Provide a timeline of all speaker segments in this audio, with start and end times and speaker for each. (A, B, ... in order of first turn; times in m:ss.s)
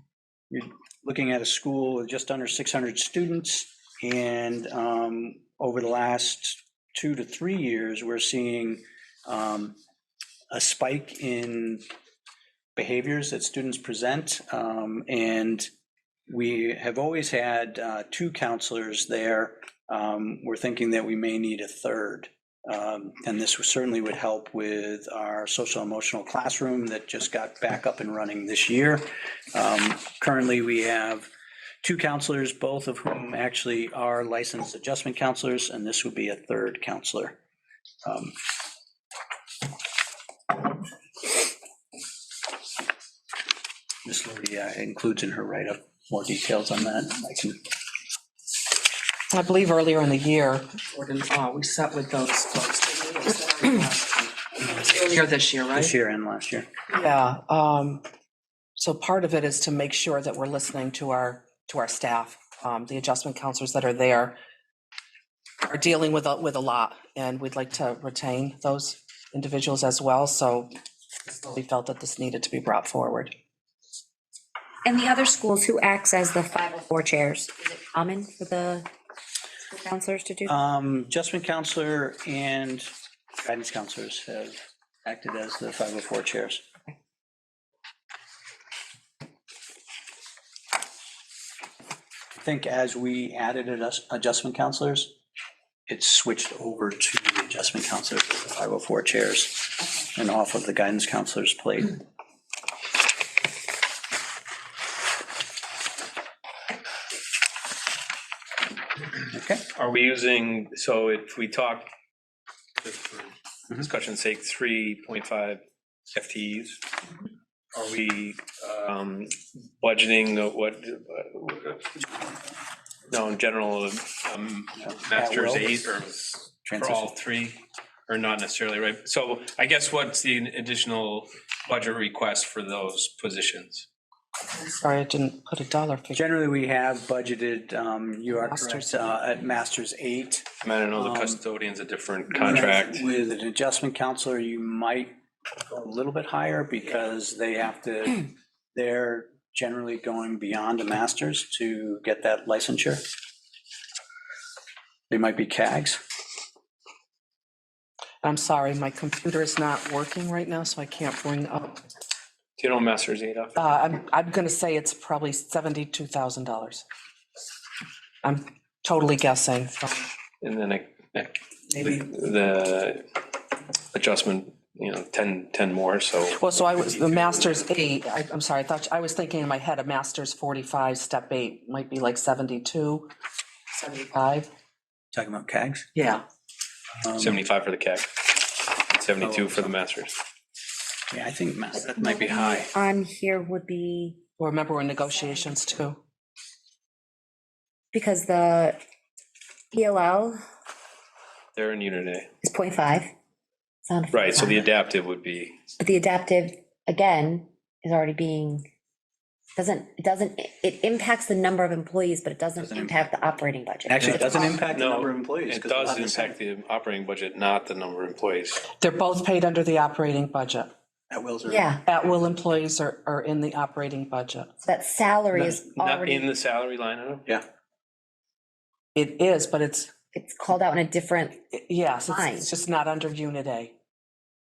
0:00.5-0:09.8 A
0:10.5-0:11.8 A
0:12.8-0:15.7 A
0:16.3-0:31.3 A
0:31.8-0:37.4 A
0:38.0-0:38.3 A
0:44.0-0:47.6 A
0:49.3-0:55.9 B
0:55.7-0:56.7 A
0:56.9-0:58.0 B
0:58.8-1:04.4 B
1:05.6-1:10.7 B
1:11.2-1:13.3 B
1:14.8-1:18.9 C
1:19.7-1:20.5 C
1:20.5-1:22.9 A
1:23.4-1:26.6 A
1:32.4-1:35.1 A
1:35.9-1:42.0 A
1:49.3-1:49.6 A
1:49.7-1:51.9 D
1:52.8-1:55.6 D
1:56.1-1:56.8 D
1:57.7-2:02.0 D
2:03.1-2:13.8 D
2:05.1-2:05.8 A
2:06.6-2:07.1 A
2:14.5-2:16.3 B
2:16.1-2:21.4 A
2:18.3-2:19.1 B
2:20.6-2:23.0 D
2:22.3-2:25.1 A
2:25.7-2:33.0 A
2:35.1-2:36.0 A
2:38.2-2:41.8 B
2:42.6-2:43.6 D
2:43.6-2:46.8 B
2:48.2-2:50.0 B
2:50.4-2:53.1 D
2:53.9-2:56.5 D
2:56.4-3:03.1 B
3:03.7-3:04.5 B
3:05.1-3:05.9 A
3:05.9-3:06.2 B
3:07.0-3:07.4 A
3:07.2-3:10.1 D
3:09.2-3:09.7 A
3:11.1-3:12.7 A
3:11.8-3:14.2 C
3:14.4-3:16.0 B
3:17.9-3:18.8 C
3:19.7-3:20.4 C
3:21.5-3:22.3 D
3:22.4-3:23.1 C
3:23.8-3:24.6 C
3:24.1-3:25.6 D
3:25.8-3:28.6 C
3:29.6-3:34.6 C
3:32.6-3:33.3 A
3:33.9-3:36.3 A
3:34.1-3:38.6 D
3:38.8-3:40.7 B
3:41.1-3:41.7 A
3:41.5-3:41.8 C
3:41.8-3:44.5 B
3:44.6-3:46.3 C
3:45.4-3:47.3 D
3:48.9-3:49.9 B
3:50.1-3:51.4 C
3:51.5-3:53.7 B
3:52.1-3:52.5 C